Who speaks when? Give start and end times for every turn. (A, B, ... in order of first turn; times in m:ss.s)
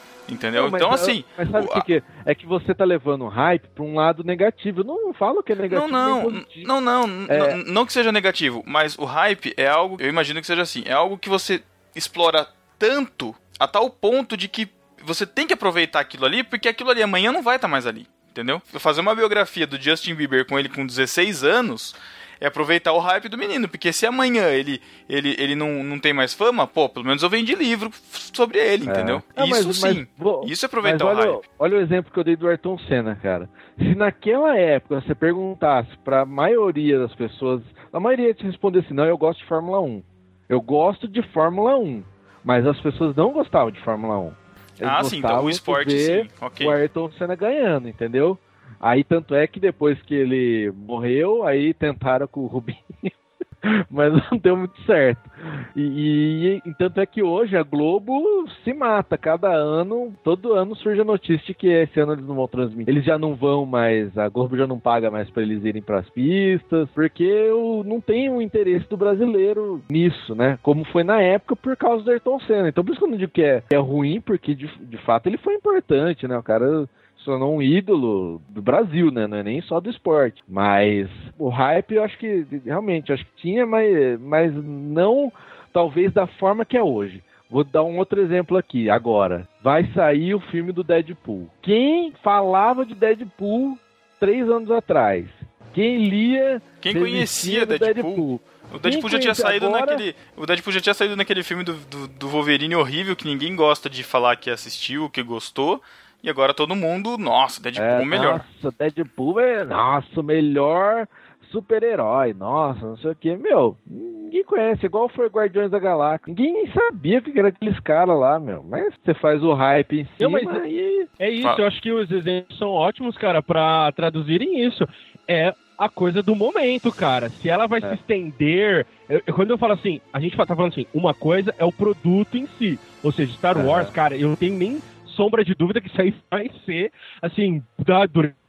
0:00.3-0:01.8 A
0:00.5-0:06.7 B
0:05.7-0:31.4 A
0:07.3-0:07.6 B
0:28.8-0:53.1 B
0:44.8-0:46.8 A
0:53.6-1:40.0 B
1:36.8-1:48.4 A
1:47.8-2:01.1 B
2:00.2-2:00.6 C
2:01.2-2:18.4 C
2:13.5-2:13.9 B